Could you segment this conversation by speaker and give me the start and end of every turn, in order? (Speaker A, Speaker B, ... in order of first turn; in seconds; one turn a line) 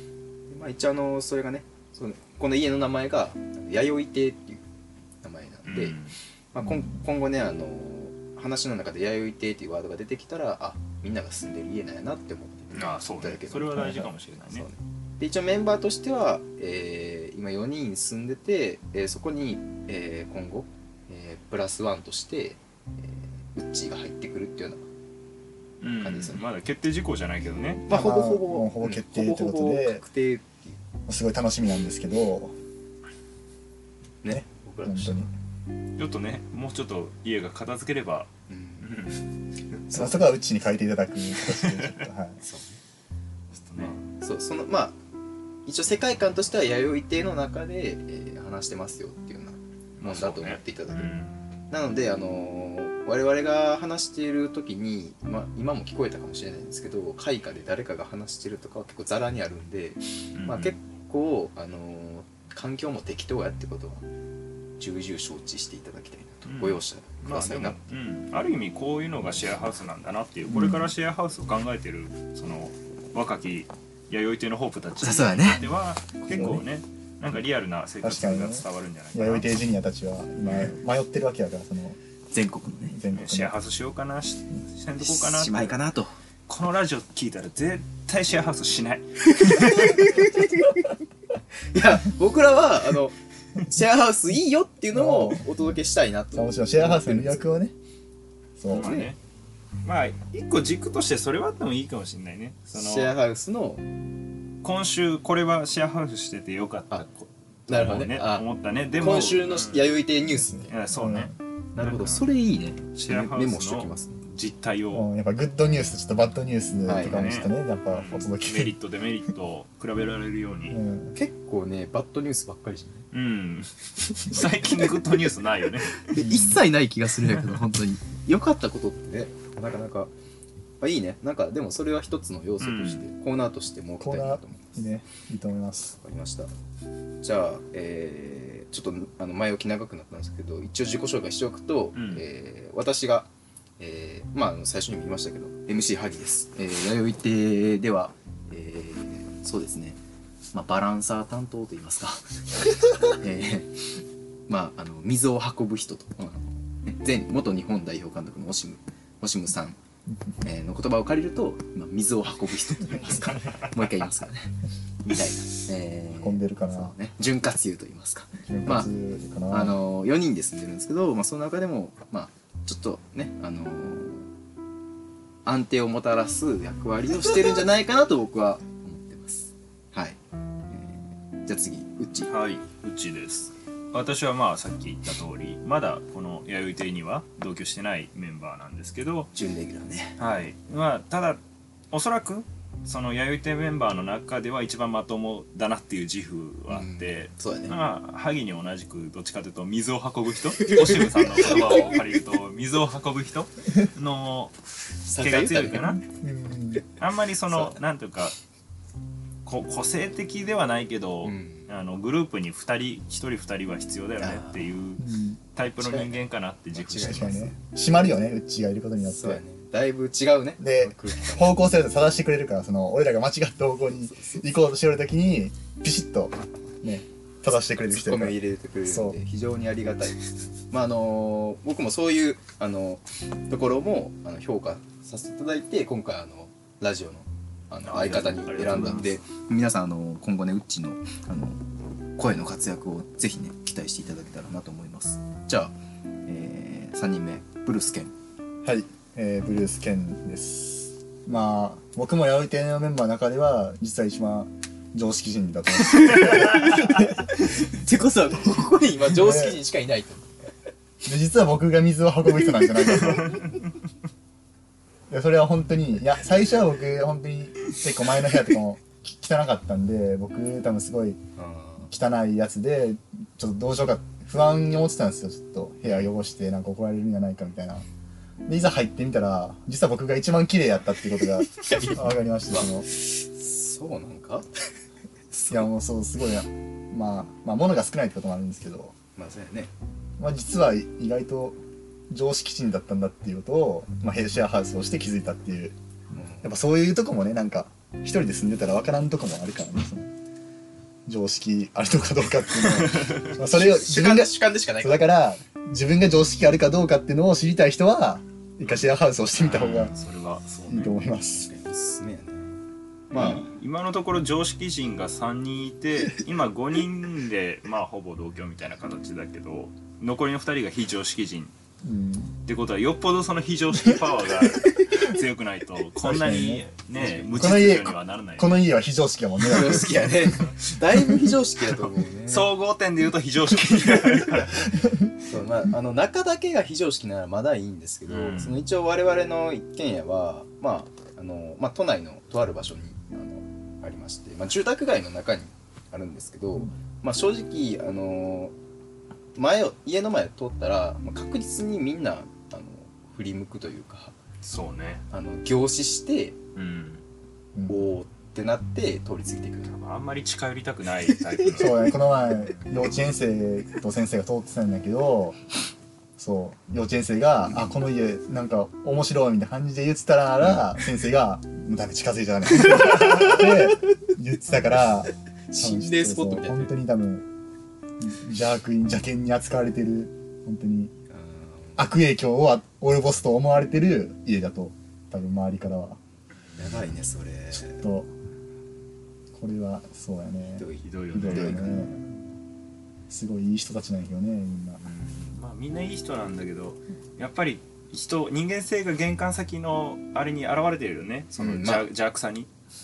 Speaker A: 0.5-4.6
Speaker A: 5.2-6.0
Speaker B: 5.7-6.2
Speaker A: 6.5-24.8
Speaker B: 12.7-14.7
Speaker B: 25.8-27.9
Speaker A: 26.0-26.4
Speaker A: 27.8-30.8
Speaker C: 27.9-30.0
Speaker C: 31.1-32.6
Speaker A: 34.2-35.3
Speaker C: 34.3-35.3
Speaker B: 36.0-38.3
Speaker A: 38.5-39.0
Speaker B: 38.8-40.1
Speaker A: 39.9-40.2
Speaker C: 39.9-42.4
Speaker B: 41.4-42.0
Speaker A: 42.4-42.8
Speaker B: 43.5-44.0
Speaker A: 43.8-45.0
Speaker A: 45.7-51.1
Speaker B: 50.0-51.4
Speaker A: 51.7-64.0
Speaker B: 60.4-60.7
Speaker A: 64.8-68.0
Speaker B: 66.5-79.5
Speaker C: 70.5-70.9
Speaker A: 75.0-75.7
Speaker C: 76.3-76.6
Speaker C: 78.0-82.0
Speaker A: 82.3-83.0
Speaker C: 82.9-83.5
Speaker B: 83.1-85.8
Speaker A: 85.0-86.1
Speaker B: 86.5-90.3
Speaker A: 89.3-90.9
Speaker A: 91.7-97.5
Speaker C: 94.9-95.7
Speaker C: 96.3-97.7
Speaker C: 98.6-99.0
Speaker B: 98.7-99.2
Speaker A: 98.8-99.1
Speaker B: 99.8-103.1
Speaker A: 102.7-103.8
Speaker B: 104.6-109.9
Speaker A: 107.7-110.8
Speaker C: 110.4-111.3
Speaker B: 110.7-112.3
Speaker A: 111.8-114.2
Speaker B: 113.0-115.1
Speaker C: 114.9-118.7
Speaker A: 116.9-117.3
Speaker B: 117.0-120.8
Speaker C: 120.7-121.2
Speaker A: 121.1-123.1
Speaker B: 123.1-126.2
Speaker A: 126.0-130.1
Speaker C: 126.2-126.6
Speaker A: 130.8-134.9
Speaker B: 132.6-133.1
Speaker C: 134.0-136.0
Speaker A: 136.0-136.5
Speaker A: 137.2-150.0
Speaker B: 141.9-142.2
Speaker A: 150.5-159.8
Speaker A: 160.4-168.9
Speaker C: 166.2-166.9
Speaker C: 168.4-169.8
Speaker A: 169.5-174.3
Speaker A: 175.4-180.2
Speaker A: 180.7-182.3
Speaker B: 182.2-189.3
Speaker A: 189.3-190.2
Speaker B: 190.2-191.4
Speaker B: 191.9-204.6
Speaker A: 196.7-197.8
Speaker A: 200.6-202.0
Speaker A: 205.1-206.0
Speaker B: 205.2-206.0
Speaker C: 206.0-206.8
Speaker B: 207.0-208.4
Speaker A: 207.5-207.8
Speaker B: 209.4-217.5
Speaker A: 211.2-211.7
Speaker A: 214.2-214.6
Speaker C: 215.0-215.4
Speaker A: 215.8-216.2
Speaker A: 216.8-217.6
Speaker C: 217.0-219.4
Speaker A: 219.0-221.7
Speaker C: 220.6-229.2
Speaker A: 223.9-224.5
Speaker A: 227.9-230.2
Speaker A: 230.7-241.6
Speaker B: 237.9-239.2
Speaker A: 242.2-245.7
Speaker A: 246.3-248.1
Speaker C: 248.6-257.1
Speaker A: 255.8-260.5
Speaker C: 259.1-259.6
Speaker C: 261.0-263.5
Speaker B: 263.2-263.5
Speaker C: 265.1-271.2
Speaker A: 271.4-271.9
Speaker C: 271.9-277.9
Speaker C: 278.5-282.9
Speaker A: 281.5-284.5
Speaker A: 285.4-285.6
Speaker C: 285.5-289.0
Speaker A: 289.2-289.7
Speaker C: 290.2-291.6
Speaker C: 292.1-295.8
Speaker A: 296.1-296.5
Speaker C: 296.4-300.1
Speaker C: 301.1-309.9
Speaker B: 302.6-303.3
Speaker A: 303.4-305.1
Speaker B: 308.6-310.9
Speaker C: 310.7-311.5
Speaker A: 311.4-312.6
Speaker A: 313.1-313.5
Speaker B: 313.1-321.5
Speaker C: 321.8-322.4
Speaker B: 322.5-328.6
Speaker C: 326.0-326.6
Speaker A: 327.0-327.4
Speaker C: 327.3-330.2
Speaker A: 329.4-332.5
Speaker B: 332.3-334.7
Speaker A: 335.1-348.5
Speaker B: 338.1-338.6
Speaker A: 349.4-354.2
Speaker B: 354.4-355.0
Speaker A: 355.1-356.4
Speaker B: 356.6-357.0
Speaker A: 357.7-359.7
Speaker B: 359.7-361.9
Speaker C: 361.5-365.4
Speaker C: 366.2-377.2
Speaker A: 372.8-373.4
Speaker A: 375.5-376.7
Speaker C: 378.0-380.9
Speaker A: 381.1-381.9
Speaker C: 381.8-386.0
Speaker A: 386.6-387.8
Speaker C: 387.7-388.1
Speaker C: 389.3-391.9
Speaker A: 390.6-392.1
Speaker B: 390.8-391.9
Speaker C: 393.1-394.8
Speaker B: 394.8-402.5
Speaker A: 401.4-401.9